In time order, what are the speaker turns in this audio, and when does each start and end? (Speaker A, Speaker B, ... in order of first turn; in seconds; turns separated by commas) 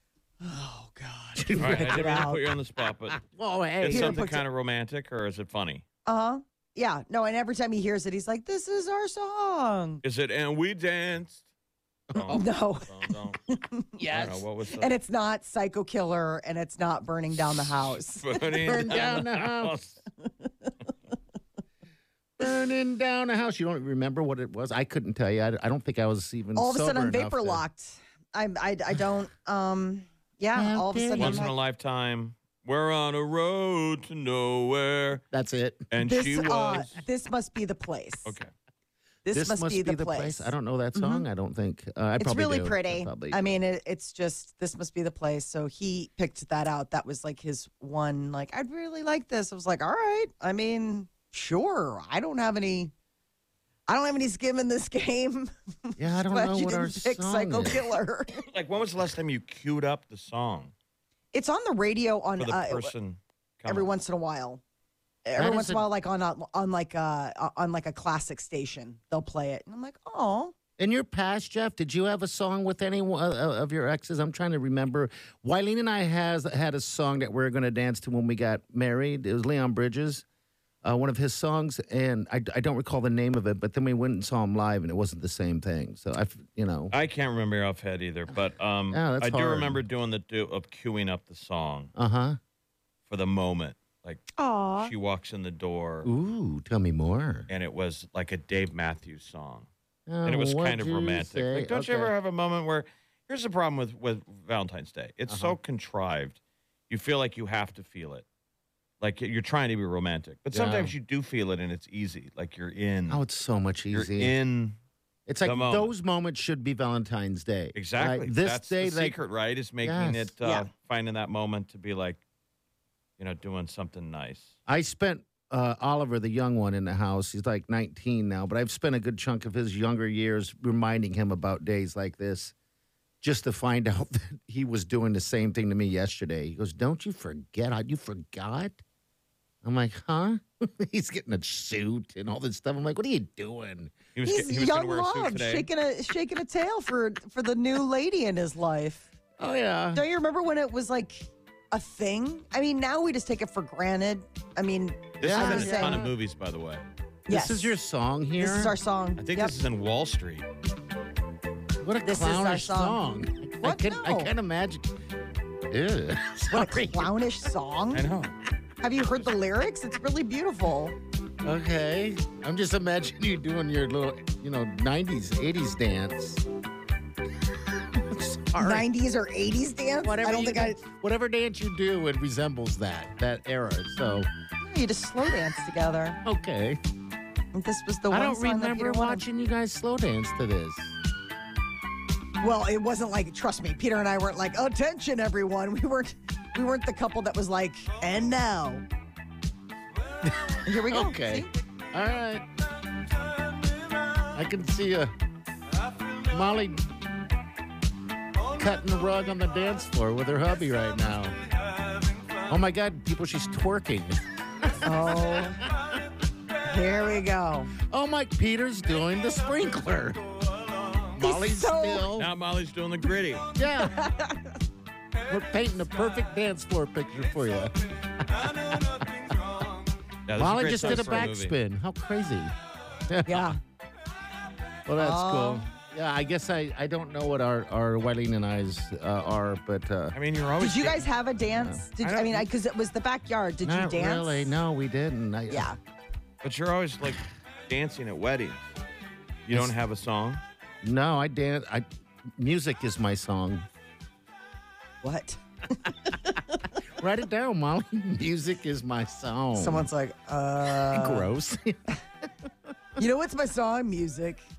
Speaker A: 0.4-2.4, Speaker B: 1.4-2.2, Speaker C: 1.6-3.2, Speaker B: 3.1-4.2, Speaker C: 3.8-5.8, Speaker A: 3.9-4.4, Speaker A: 6.0-10.0, Speaker C: 10.0-11.4, Speaker C: 12.1-13.4, Speaker A: 12.3-19.0, Speaker C: 14.1-14.9, Speaker C: 18.1-20.0, Speaker B: 18.6-19.8, Speaker A: 20.2-20.7, Speaker B: 22.4-27.6, Speaker A: 26.6-31.5, Speaker B: 30.5-31.5, Speaker C: 31.2-35.2, Speaker B: 35.3-35.9, Speaker C: 35.9-37.0, Speaker A: 36.0-38.3, Speaker C: 38.2-38.5, Speaker A: 39.2-41.2, Speaker B: 39.3-43.6, Speaker A: 42.2-52.9, Speaker A: 53.9-58.4, Speaker B: 56.0-57.9, Speaker C: 58.4-60.7, Speaker A: 61.3-62.9, Speaker C: 62.4-63.9, Speaker A: 63.6-64.6, Speaker A: 65.2-70.5, Speaker B: 65.4-65.8, Speaker B: 70.8-80.2, Speaker B: 80.8-86.9, Speaker C: 86.9-91.9, Speaker B: 88.9-89.8, Speaker B: 92.0-92.4, Speaker C: 93.1-94.3, Speaker A: 94.4-94.9, Speaker C: 94.8-96.1, Speaker B: 96.0-97.5, Speaker C: 97.5-99.7, Speaker B: 100.1-102.1, Speaker C: 100.2-106.4, Speaker B: 105.3-105.6, Speaker C: 106.9-108.2, Speaker C: 109.0-113.2, Speaker B: 110.5-110.9, Speaker B: 113.1-114.3, Speaker C: 113.9-114.8, Speaker B: 115.3-119.2, Speaker C: 115.4-115.9, Speaker C: 117.7-122.2, Speaker B: 119.8-120.3, Speaker C: 123.2-124.5, Speaker B: 124.7-132.5, Speaker B: 133.2-138.8, Speaker B: 139.6-144.0, Speaker C: 144.2-145.7, Speaker A: 144.2-149.1, Speaker B: 149.4-150.0, Speaker A: 149.9-156.1, Speaker C: 155.2-156.8, Speaker B: 155.2-156.1, Speaker A: 157.3-157.8, Speaker B: 157.3-158.8, Speaker A: 158.4-159.5, Speaker C: 159.2-160.4, Speaker B: 161.8-164.9, Speaker A: 162.0-163.0, Speaker A: 163.6-164.3, Speaker B: 165.7-167.1, Speaker A: 166.5-168.1, Speaker C: 167.9-168.3, Speaker A: 168.8-170.9, Speaker B: 171.4-176.4, Speaker B: 177.9-178.8, Speaker A: 178.6-180.8, Speaker B: 180.0-184.3, Speaker A: 184.6-186.2, Speaker B: 186.2-186.8, Speaker A: 187.5-189.2, Speaker B: 188.1-190.9, Speaker A: 192.4-198.8, Speaker B: 200.2-202.4, Speaker A: 200.6-201.5, Speaker B: 204.3-205.1, Speaker B: 206.2-206.9, Speaker B: 208.5-211.4, Speaker B: 212.4-215.4, Speaker A: 214.8-215.6, Speaker A: 216.6-217.7, Speaker B: 217.8-220.2, Speaker B: 221.1-222.3, Speaker A: 221.2-222.1, Speaker C: 222.2-223.5, Speaker B: 223.5-223.9, Speaker A: 223.8-224.5, Speaker B: 225.3-229.4, Speaker C: 230.3-231.5, Speaker B: 230.4-232.5, Speaker A: 230.8-231.2, Speaker B: 233.1-233.5, Speaker A: 233.2-233.6, Speaker B: 234.8-240.2, Speaker A: 235.0-235.7, Speaker C: 240.1-241.1, Speaker A: 240.6-244.6, Speaker B: 241.5-241.8, Speaker C: 242.0-242.5, Speaker B: 243.6-245.7, Speaker A: 245.5-245.8, Speaker C: 246.4-248.7, Speaker C: 249.4-250.4, Speaker B: 250.8-253.7, Speaker A: 255.0-256.7, Speaker B: 257.0-259.9, Speaker A: 259.6-261.3, Speaker B: 260.8-262.0, Speaker A: 263.0-264.4